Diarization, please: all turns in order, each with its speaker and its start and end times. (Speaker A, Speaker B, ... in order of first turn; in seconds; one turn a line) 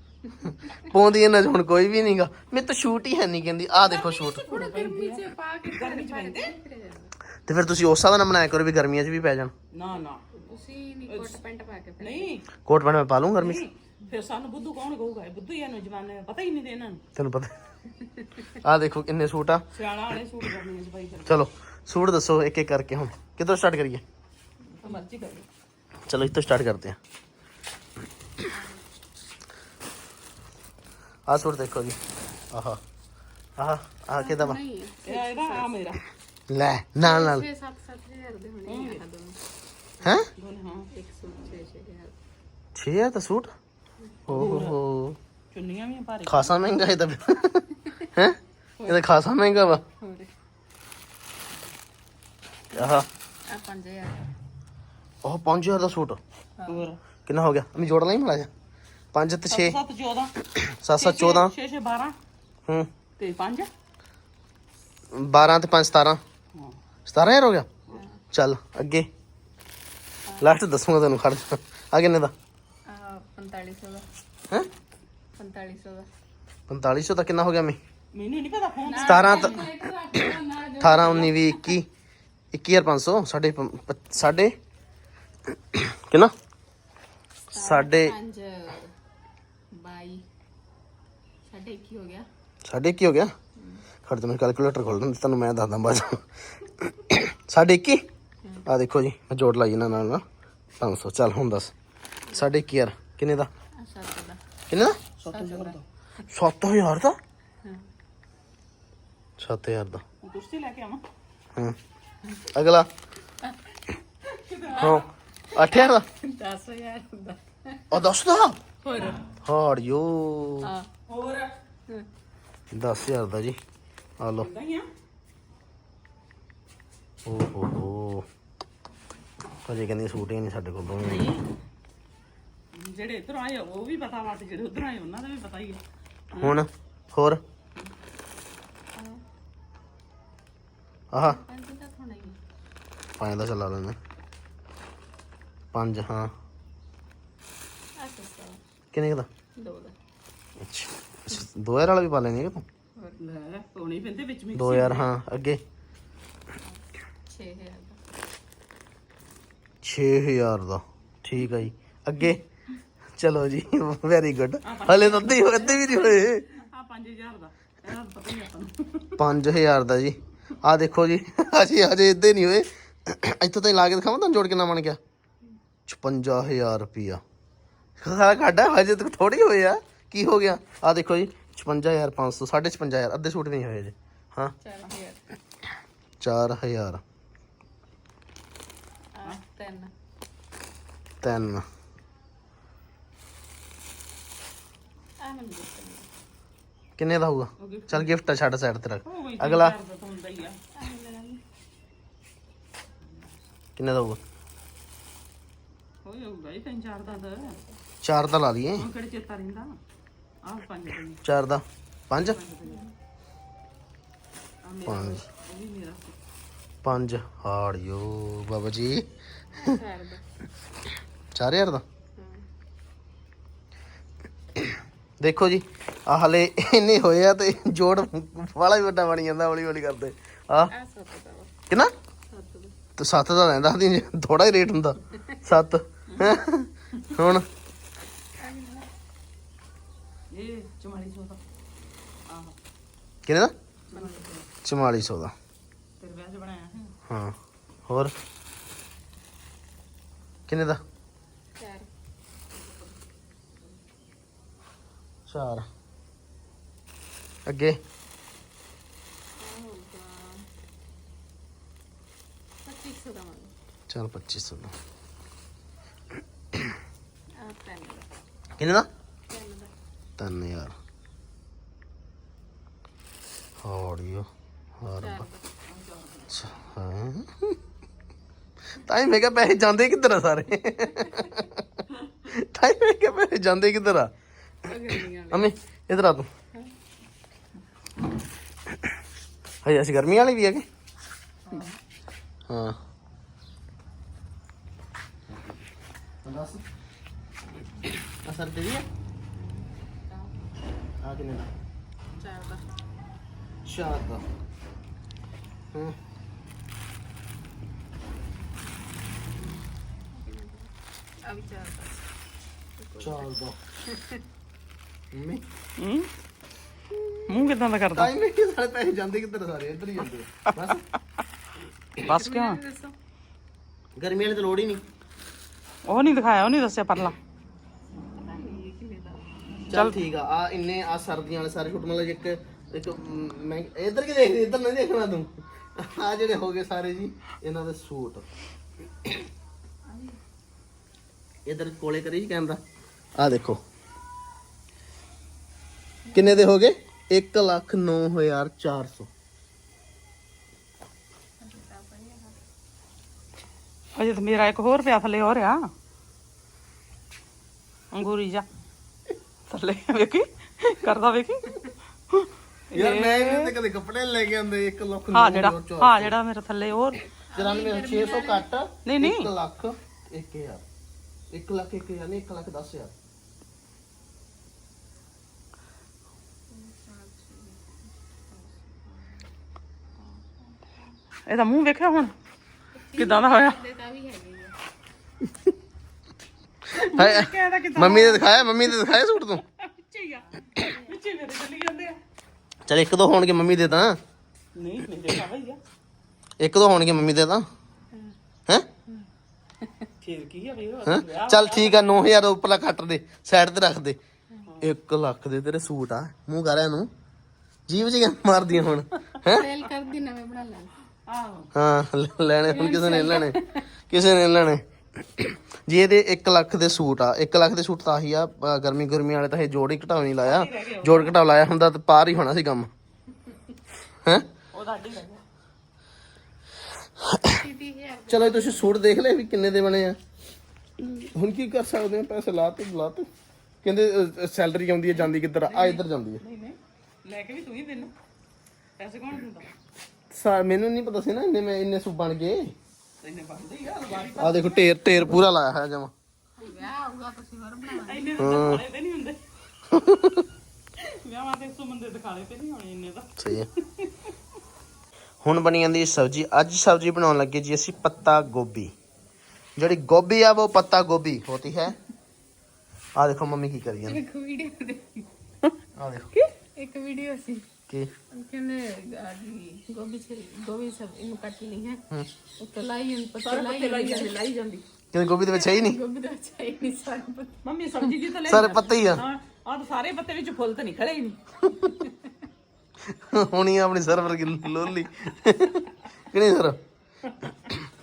Speaker A: 0.7-4.4
Speaker B: 3.9-6.5
Speaker C: 3.9-7.1
Speaker A: 7.5-9.5
Speaker B: 9.7-10.2
Speaker C: 10.3-12.3
Speaker B: 11.1-11.4
Speaker B: 12.0-12.4
Speaker A: 12.7-13.6
Speaker B: 13.4-17.0
Speaker A: 17.1-17.5
Speaker A: 18.6-19.6
Speaker B: 19.7-21.4
Speaker A: 21.2-24.0
Speaker B: 24.8-25.4
Speaker C: 24.8-25.3
Speaker A: 26.1-27.0
Speaker C: 28.5-28.8
Speaker A: 31.3-32.0
Speaker A: 32.5-32.8
Speaker A: 33.6-34.6
Speaker C: 34.2-35.6
Speaker B: 35.0-36.0
Speaker A: 36.5-37.5
Speaker C: 37.0-39.4
Speaker B: 38.6-39.0
Speaker A: 40.0-40.3
Speaker B: 40.4-40.9
Speaker C: 40.9-42.1
Speaker A: 42.7-43.5
Speaker A: 44.3-45.2
Speaker B: 44.3-44.8
Speaker B: 45.5-46.5
Speaker A: 46.2-49.8
Speaker C: 48.8-49.0
Speaker C: 50.0-50.3
Speaker A: 52.7-53.1
Speaker C: 53.5-54.3
Speaker A: 55.2-56.2
Speaker C: 56.6-56.9
Speaker B: 56.7-57.0
Speaker A: 57.3-58.5
Speaker A: 59.1-59.8
Speaker B: 59.5-60.4
Speaker A: 60.6-61.5
Speaker B: 60.9-62.1
Speaker B: 63.2-63.7
Speaker A: 65.1-66.2
Speaker A: 67.1-67.7
Speaker C: 67.9-68.2
Speaker A: 68.3-69.1
Speaker C: 70.2-70.5
Speaker A: 70.4-72.3
Speaker C: 72.9-74.0
Speaker C: 75.4-76.1
Speaker A: 76.7-77.8
Speaker B: 78.1-79.6
Speaker C: 78.8-81.7
Speaker A: 79.0-79.7
Speaker A: 80.8-81.9
Speaker A: 82.5-84.5
Speaker A: 85.7-86.3
Speaker C: 87.5-88.9
Speaker A: 87.5-88.1
Speaker C: 89.7-90.2
Speaker C: 91.4-92.2
Speaker A: 92.7-93.3
Speaker C: 93.6-93.8
Speaker A: 94.0-96.2
Speaker A: 96.8-98.0
Speaker A: 98.7-100.2
Speaker A: 100.8-101.7
Speaker C: 102.3-102.5
Speaker A: 102.3-103.5
Speaker C: 103.8-104.4
Speaker A: 104.7-107.2
Speaker C: 105.2-105.8
Speaker A: 109.4-110.0
Speaker B: 110.2-111.0
Speaker A: 112.5-112.9
Speaker B: 114.3-115.1
Speaker A: 114.8-116.0
Speaker C: 115.5-118.0
Speaker A: 117.9-118.6
Speaker C: 118.8-119.2
Speaker A: 119.4-120.7
Speaker C: 120.6-120.9
Speaker B: 121.1-121.5
Speaker A: 122.7-123.6
Speaker A: 124.2-124.5
Speaker B: 124.4-124.8
Speaker A: 127.2-128.2
Speaker A: 129.7-131.3
Speaker B: 131.0-131.4
Speaker B: 132.7-135.8
Speaker B: 136.3-136.6
Speaker A: 136.4-137.4
Speaker A: 141.1-141.4
Speaker C: 141.2-142.4
Speaker A: 143.2-143.9
Speaker A: 145.7-146.3
Speaker C: 148.0-148.6
Speaker A: 148.9-149.3
Speaker C: 149.6-149.9
Speaker A: 150.6-152.6
Speaker C: 152.9-153.2
Speaker B: 153.2-155.1
Speaker A: 154.5-155.6
Speaker C: 157.3-158.0
Speaker A: 159.8-162.4
Speaker A: 163.2-166.5
Speaker B: 164.6-169.2
Speaker A: 169.2-175.0
Speaker A: 175.9-177.2
Speaker A: 178.0-184.5
Speaker C: 184.6-185.2
Speaker A: 186.2-187.0
Speaker C: 189.1-189.9
Speaker A: 191.2-191.6
Speaker C: 195.2-196.1
Speaker A: 197.0-199.8
Speaker B: 197.6-198.1
Speaker B: 199.0-200.6
Speaker C: 200.8-201.4
Speaker A: 203.8-204.2
Speaker B: 206.0-207.6
Speaker C: 207.0-207.8
Speaker A: 208.0-208.8
Speaker B: 208.8-209.7
Speaker B: 210.4-211.2
Speaker A: 211.2-212.4
Speaker B: 212.2-212.8
Speaker C: 212.7-212.9
Speaker B: 214.6-216.2
Speaker A: 214.8-215.2
Speaker A: 216.8-219.0
Speaker C: 219.6-220.2
Speaker A: 221.3-221.8
Speaker C: 222.2-222.4
Speaker A: 225.2-230.7
Speaker C: 230.7-231.5
Speaker C: 232.3-232.7
Speaker A: 233.0-237.4
Speaker B: 236.1-236.4
Speaker B: 236.9-237.2
Speaker C: 238.4-238.9
Speaker B: 240.3-241.4
Speaker B: 242.3-242.5
Speaker A: 243.2-243.5
Speaker C: 243.9-244.3
Speaker B: 243.9-244.4
Speaker A: 244.6-245.3
Speaker B: 246.0-246.9
Speaker A: 247.1-247.3
Speaker A: 247.9-248.1
Speaker A: 250.5-250.8
Speaker C: 251.6-251.9
Speaker A: 255.3-255.6
Speaker A: 257.4-257.8
Speaker C: 259.4-260.4
Speaker C: 262.6-263.5
Speaker A: 263.9-264.7
Speaker C: 267.4-268.1
Speaker A: 268.6-268.9
Speaker C: 269.3-269.7
Speaker A: 270.2-270.7
Speaker A: 273.6-274.3
Speaker A: 274.8-275.2
Speaker C: 274.9-275.5
Speaker B: 275.7-276.3
Speaker A: 276.3-277.6
Speaker A: 278.8-281.6
Speaker A: 282.2-284.1
Speaker C: 284.6-285.5
Speaker A: 285.3-286.3
Speaker A: 289.6-290.6
Speaker C: 291.5-291.8
Speaker A: 292.5-292.8
Speaker A: 295.3-295.6
Speaker A: 296.2-296.6
Speaker A: 298.2-298.8
Speaker C: 299.4-300.3
Speaker A: 301.0-301.5
Speaker C: 302.2-302.6
Speaker A: 303.6-304.2
Speaker C: 310.1-310.7
Speaker C: 311.2-312.0
Speaker C: 312.8-313.3
Speaker A: 313.0-313.6
Speaker C: 313.9-314.2
Speaker A: 315.1-315.4
Speaker B: 315.8-316.1
Speaker B: 317.3-318.1
Speaker A: 317.9-320.8
Speaker C: 322.0-322.9
Speaker B: 322.0-322.6
Speaker A: 324.0-324.8
Speaker B: 325.9-327.1
Speaker C: 328.0-329.4
Speaker A: 329.7-338.2
Speaker B: 329.7-330.0
Speaker C: 339.9-340.2
Speaker A: 341.4-342.6
Speaker A: 343.2-343.6
Speaker C: 346.1-346.4
Speaker A: 346.1-349.1
Speaker C: 351.4-352.4
Speaker B: 353.9-355.7
Speaker B: 357.9-358.4
Speaker B: 359.5-363.6
Speaker A: 362.7-366.1
Speaker B: 365.1-367.0
Speaker C: 367.3-368.5
Speaker A: 367.3-370.6
Speaker B: 368.8-369.3
Speaker A: 371.3-372.9
Speaker C: 376.5-377.8
Speaker C: 378.3-379.2
Speaker B: 381.2-382.1
Speaker C: 382.8-384.6
Speaker B: 382.9-383.6
Speaker B: 386.7-388.8
Speaker A: 386.9-389.4
Speaker B: 389.6-392.0
Speaker C: 390.5-390.9
Speaker A: 392.7-394.0
Speaker B: 394.5-395.6
Speaker A: 396.4-397.4
Speaker B: 400.0-402.0
Speaker A: 400.8-404.0
Speaker B: 404.5-404.7
Speaker A: 404.6-406.9
Speaker A: 407.7-409.4
Speaker C: 409.2-410.7
Speaker B: 411.1-411.5
Speaker A: 411.5-413.4
Speaker C: 412.5-413.6
Speaker A: 413.9-422.7
Speaker B: 420.2-421.1
Speaker B: 424.5-425.2
Speaker C: 427.3-428.8
Speaker A: 428.1-430.0
Speaker A: 430.8-433.1
Speaker A: 433.6-436.2
Speaker B: 434.9-437.9
Speaker B: 438.8-439.5
Speaker A: 440.1-442.5
Speaker B: 443.0-444.9
Speaker A: 444.2-445.9
Speaker C: 446.4-448.6
Speaker B: 447.7-449.2
Speaker A: 448.2-448.6
Speaker A: 449.7-450.2
Speaker B: 450.8-454.1
Speaker A: 453.2-453.5
Speaker A: 455.2-458.7
Speaker A: 459.6-461.8
Speaker A: 462.9-464.0
Speaker C: 463.8-465.1
Speaker A: 465.8-466.1
Speaker C: 466.6-467.4
Speaker C: 468.1-471.8
Speaker C: 472.4-474.2
Speaker B: 473.2-474.6
Speaker A: 474.9-475.8
Speaker C: 475.2-477.4
Speaker B: 477.4-481.2
Speaker A: 478.2-479.0
Speaker A: 481.4-481.7
Speaker A: 482.9-486.6